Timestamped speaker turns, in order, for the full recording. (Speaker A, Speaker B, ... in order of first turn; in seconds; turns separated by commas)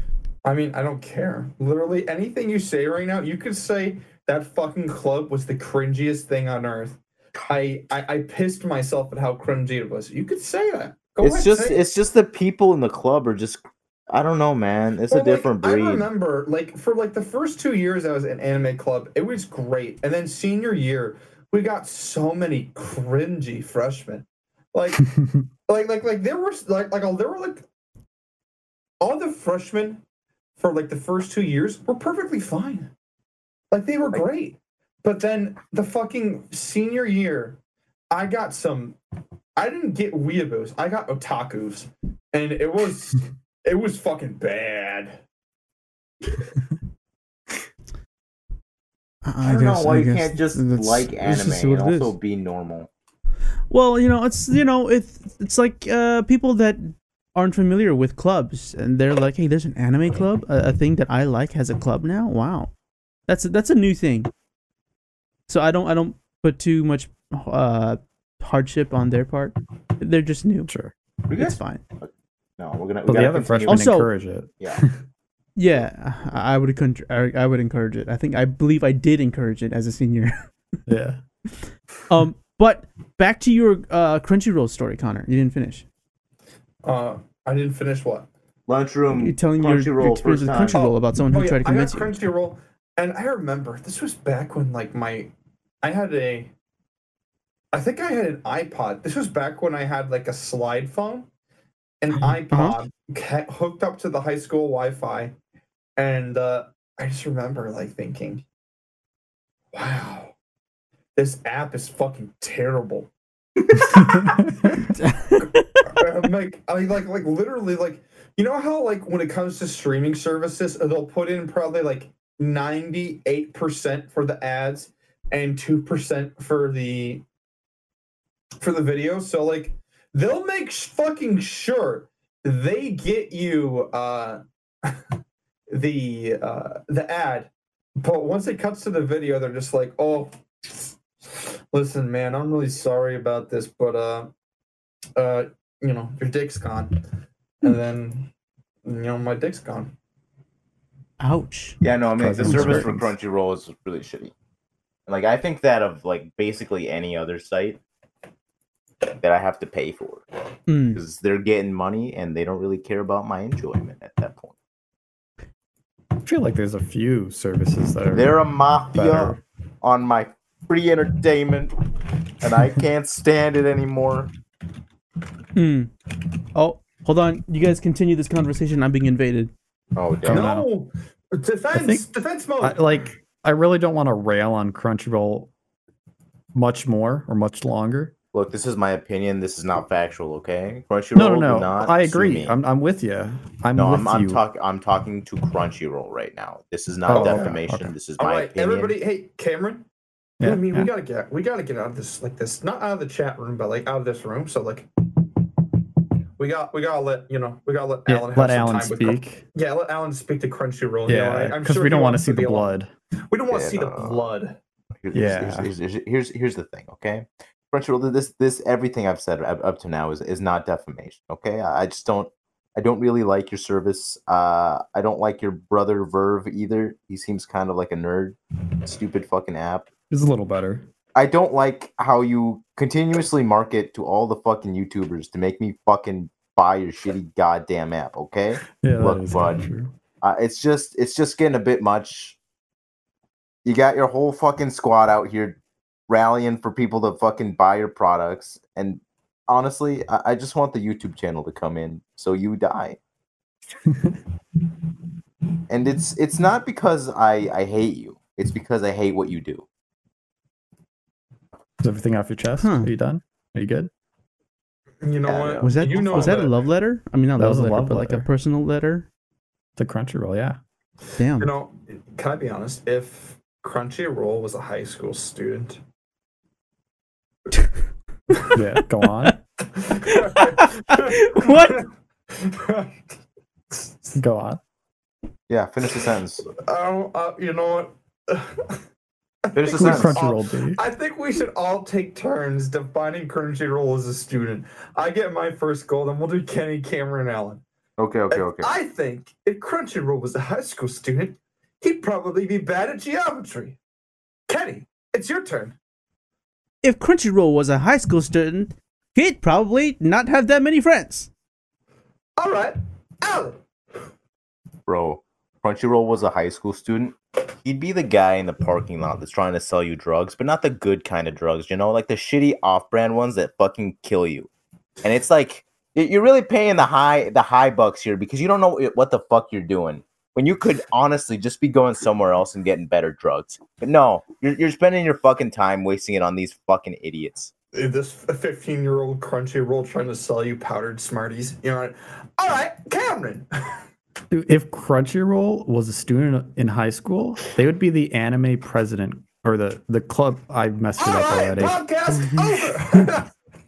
Speaker A: 0.4-11.8, Speaker B: 11.2-16.1, Speaker A: 15.1-25.1, Speaker C: 25.2-25.4, Speaker A: 25.7-27.6, Speaker A: 29.0-30.0, Speaker A: 30.6-32.9, Speaker A: 33.7-37.6, Speaker A: 38.1-39.0, Speaker A: 39.6-45.2, Speaker D: 49.2-52.1, Speaker B: 49.4-52.9, Speaker D: 53.7-62.7, Speaker D: 63.3-64.3, Speaker D: 65.5-70.7, Speaker C: 70.7-70.9, Speaker B: 71.3-73.9, Speaker D: 71.4-71.8, Speaker C: 73.1-74.9, Speaker D: 73.7-74.1, Speaker D: 75.6-80.4, Speaker C: 80.9-81.2, Speaker D: 82.1-85.8, Speaker A: 86.8-88.3, Speaker B: 88.7-90.8, Speaker D: 89.1-92.2, Speaker A: 90.7-95.3, Speaker A: 95.8-96.5, Speaker A: 97.7-101.3, Speaker A: 102.0-105.3, Speaker D: 102.5-102.8, Speaker A: 106.0-108.4, Speaker A: 109.7-110.3, Speaker A: 111.2-113.1, Speaker A: 113.7-114.5, Speaker C: 113.9-114.7, Speaker D: 114.8-115.9, Speaker A: 115.8-127.2, Speaker A: 128.6-135.0, Speaker A: 135.7-144.3, Speaker A: 145.2-147.0, Speaker A: 147.6-148.3, Speaker A: 148.8-149.9, Speaker D: 151.2-151.8, Speaker B: 151.8-154.3, Speaker C: 152.2-153.2, Speaker D: 152.4-152.9, Speaker B: 155.1-157.8, Speaker B: 159.2-160.3, Speaker D: 160.7-161.0, Speaker B: 160.9-164.5, Speaker C: 166.2-168.4, Speaker B: 168.1-171.8, Speaker C: 168.9-169.4, Speaker B: 172.4-174.3, Speaker D: 175.6-175.9, Speaker D: 176.5-179.5, Speaker B: 180.0-180.4, Speaker C: 180.2-180.7, Speaker A: 180.2-182.9, Speaker C: 181.7-182.1, Speaker C: 182.6-185.5, Speaker C: 186.5-188.1, Speaker B: 188.3-192.6, Speaker C: 191.2-194.4, Speaker B: 193.8-198.9, Speaker C: 197.1-197.9, Speaker A: 197.1-197.6, Speaker A: 198.2-199.8, Speaker C: 200.4-200.9, Speaker A: 200.4-204.9, Speaker A: 206.4-212.7, Speaker C: 208.1-209.4, Speaker C: 211.1-212.9, Speaker A: 213.3-214.6, Speaker B: 213.5-214.3, Speaker B: 215.0-229.9, Speaker C: 215.1-215.7, Speaker C: 230.1-230.9, Speaker B: 231.2-239.6, Speaker C: 238.8-239.9, Speaker B: 240.2-242.4, Speaker B: 243.7-253.0, Speaker C: 253.9-254.2, Speaker B: 255.7-259.6, Speaker C: 261.8-263.9, Speaker D: 262.6-262.9, Speaker A: 265.0-266.6, Speaker B: 265.3-266.4, Speaker D: 265.6-269.1, Speaker C: 267.4-268.3, Speaker C: 269.8-270.6, Speaker D: 271.2-271.5, Speaker A: 271.4-275.8, Speaker C: 278.5-279.4, Speaker A: 279.7-283.1, Speaker D: 280.0-281.9, Speaker A: 283.7-284.1, Speaker C: 284.1-284.6, Speaker B: 285.5-286.5, Speaker A: 286.6-288.8, Speaker A: 289.5-297.6, Speaker B: 289.5-290.2, Speaker C: 289.7-290.8, Speaker B: 298.0-298.7, Speaker A: 298.3-303.8, Speaker A: 304.5-305.8, Speaker D: 306.8-311.3, Speaker A: 312.4-313.6, Speaker B: 314.9-324.5, Speaker B: 325.0-337.5, Speaker A: 337.7-343.8, Speaker C: 344.3-351.8, Speaker A: 351.0-353.3